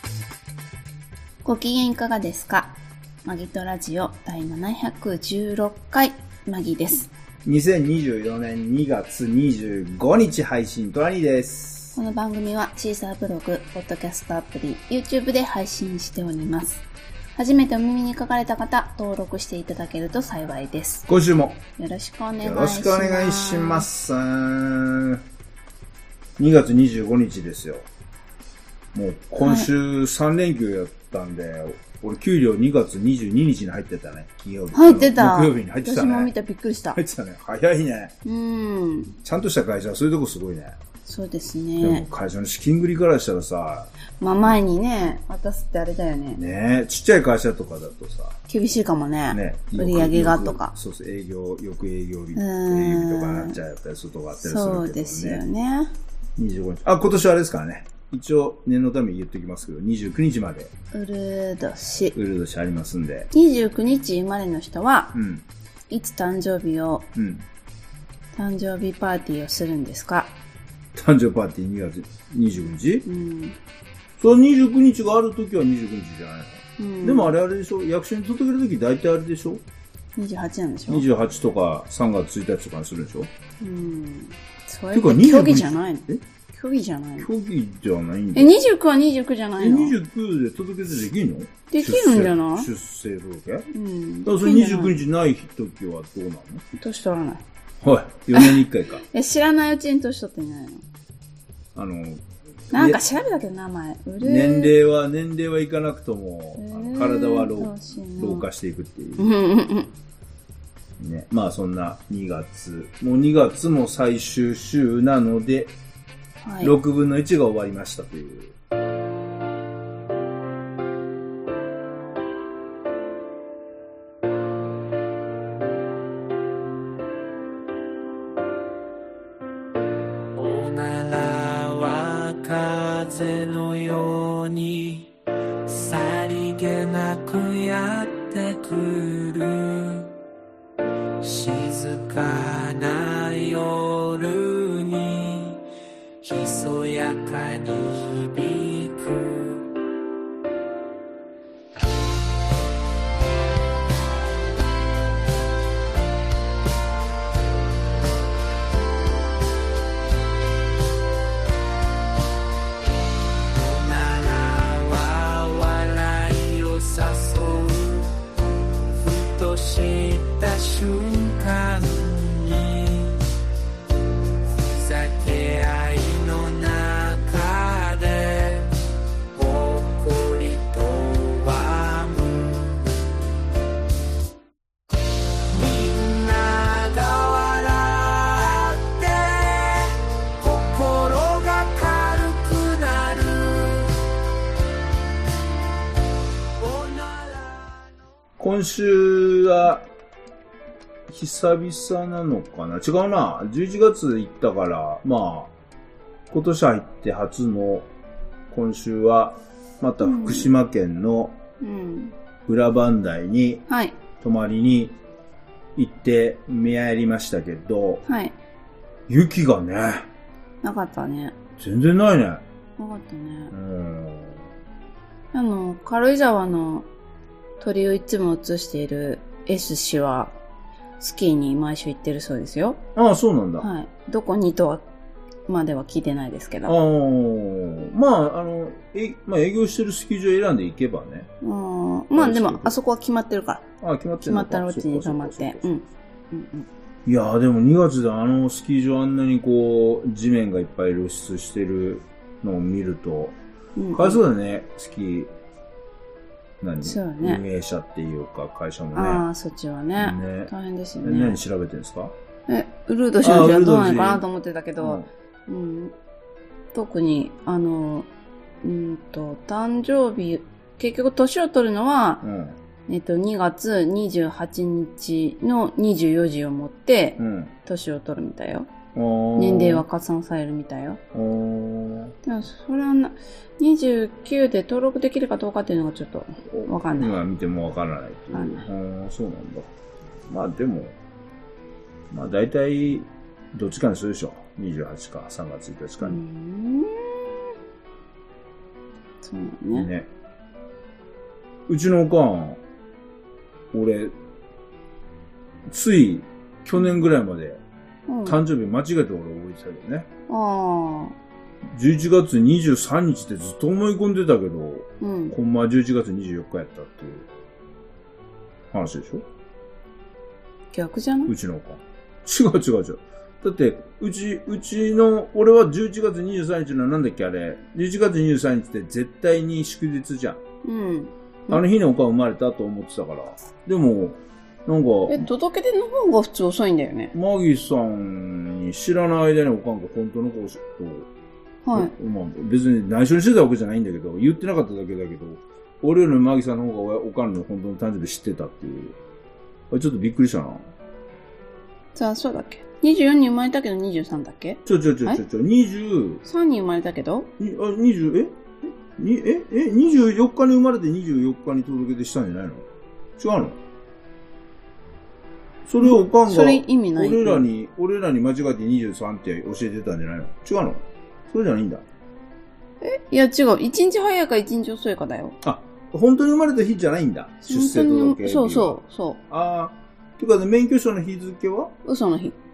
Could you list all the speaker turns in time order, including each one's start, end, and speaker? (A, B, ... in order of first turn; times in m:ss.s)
0:01.4-0:07.1 A
0:07.4-0:12.0 B
0:12.0-0:16.8 A
0:17.4-0:21.1 A
0:21.1-0:21.6 B
0:21.8-0:23.9 A
0:22.4-0:25.2 B
0:26.4-0:27.9 B
0:28.9-0:36.3 B
0:29.4-0:29.7 A
0:34.7-0:37.0 A
0:36.9-0:38.1 B
0:38.2-0:39.2 A
0:39.2-0:40.8 B
0:41.0-0:42.1 A
0:41.8-0:43.9 B
0:44.2-0:46.4 A
0:46.3-0:48.4 B
0:48.5-0:50.7 A
0:49.3-0:55.4 B
0:52.4-0:53.6 A
0:54.4-0:55.9 A
0:56.4-1:00.7 B
1:00.9-1:02.1 A
1:02.1-1:03.3 B
1:03.3-1:05.2 A
1:05.1-1:05.4 B
1:05.9-1:07.1 A
1:07.2-1:07.4 B
1:08.3-1:10.3 A
1:10.9-1:13.0 B
1:13.0-1:13.6 A
1:14.2-1:19.6 B
1:16.8-1:17.3 A
1:20.2-1:21.0 A
1:20.9-1:23.3 B
1:23.6-1:27.3 A
1:24.9-1:26.2 B
1:27.2-1:28.6 B
1:28.3-1:29.9 A
1:29.6-1:33.7 B
1:31.7-1:32.7 A
1:33.7-1:35.0 A
1:34.2-1:36.6 B
1:36.7-1:37.4 A
1:37.8-1:39.0 B
1:38.3-1:40.8 A
1:41.7-1:43.0 B
1:42.7-1:44.7 A
1:44.2-1:49.3 B
1:46.6-1:48.4 A
1:49.2-1:49.9 A
1:51.0-1:55.7 B
1:56.4-1:56.8 A
1:56.6-1:58.6 B
2:10.4-2:15.1 C
2:15.7-2:20.1 C
2:21.2-2:25.6 C
2:26.2-2:29.6 C
2:43.5-2:48.1 C
2:49.0-2:53.2 C
2:54.6-2:58.7 C
2:59.3-3:02.8 C
3:05.5-3:13.9 C
3:16.6-3:17.8 C
3:18.4-3:19.9 B
3:21.1-3:25.5 B
3:26.3-3:27.9 B
3:28.5-3:31.4 B
3:30.0-3:30.5 A
3:31.6-3:32.2 A
3:32.5-3:33.6 B
3:33.7-3:34.0 A
3:34.2-3:35.0 B
3:35.8-3:38.0 B
3:38.1-3:38.3 A
3:39.1-3:40.1 B
3:40.6-3:41.3 A
3:41.6-3:42.4 B
3:42.8-3:43.5 A
3:43.5-3:44.5 B
3:45.3-3:46.9 A
3:47.6-3:50.4 A
3:51.0-3:52.8 A
3:53.0-3:53.7 B
3:53.6-3:54.8 A
3:55.5-3:56.8 A
3:56.7-4:01.3 B
4:01.4-4:03.7 A
4:02.2-4:02.8 B
4:03.8-4:05.7 B
4:04.2-4:06.7 A
4:07.1-4:13.4 B
4:13.8-4:14.2 A
4:13.9-4:15.3 B
4:16.6-4:19.2 B
4:16.8-4:17.4 A
4:18.9-4:21.4 A
4:20.0-4:22.2 B
4:22.5-4:25.9 A
4:23.2-4:24.2 B
4:24.8-4:25.1 B
4:26.7-4:28.1 A
4:28.6-4:32.2 A
4:32.2-4:32.6 B
4:32.9-4:38.7 A
4:37.2-4:37.5 B
4:38.9-4:39.8 B
4:39.4-4:41.0 A
4:41.1-4:42.2 B
4:42.2-4:47.2 A
4:46.5-4:49.7 B
4:48.3-4:48.7 A
4:50.3-4:50.9 B
4:52.1-4:56.2 B
4:56.0-4:57.4 A
4:59.2-4:59.9 A
4:59.7-5:00.1 B
5:01.7-5:02.6 B
5:03.7-5:04.1 B
5:05.7-5:07.6 B
5:08.1-5:08.4 A
5:08.2-5:10.1 B
5:10.3-5:11.2 A
5:11.7-5:17.3 B
5:15.0-5:15.4 A
5:18.7-5:19.2 B
5:20.7-5:21.3 A
5:21.3-5:30.4 B
5:30.6-5:31.6 A
5:31.5-5:35.2 B
5:35.1-5:37.1 A
5:37.1-5:41.1 B
5:41.6-5:41.9 A
5:41.7-5:49.0 B
5:49.7-5:50.7 B
5:51.9-5:55.2 A
5:54.7-5:56.2 B
5:56.2-5:57.3 A
5:57.4-6:02.7 B
6:03.2-6:03.6 B
6:05.7-6:11.8 B
6:05.8-6:07.5 A
6:12.8-6:15.4 A
6:15.4-6:21.8 B
6:17.4-6:19.2 A
6:21.8-6:22.4 A